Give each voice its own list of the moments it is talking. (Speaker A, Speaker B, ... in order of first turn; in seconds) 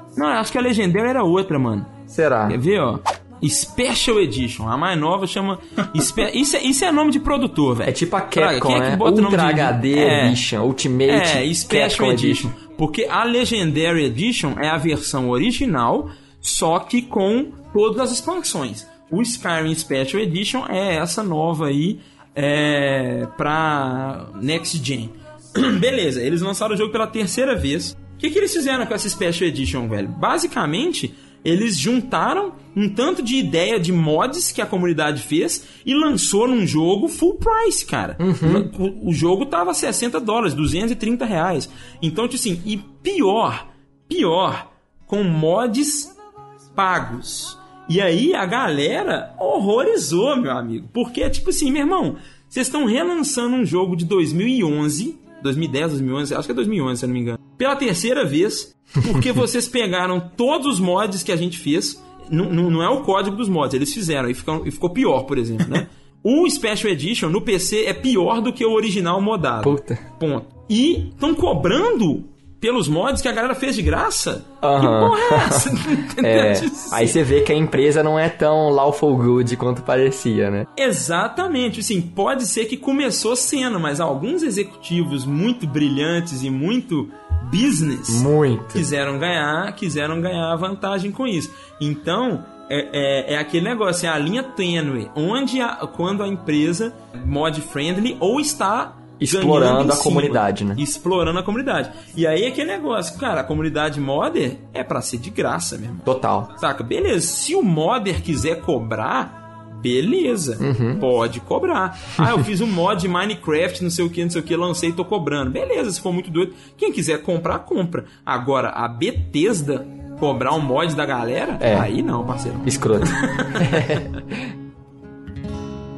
Speaker A: 0.2-1.9, 2.5-10.4, 11.1-46.1, 46.8-77.2, 80.8-124.2
Speaker B: 2.1-2.6, 7.9-12.5, 38.2-38.7, 69.6-70.0, 74.6-80.7, 88.1-88.9, 99.2-100.8, 106.1-106.5, 110.6-111.0, 121.6-121.9, 122.6-124.4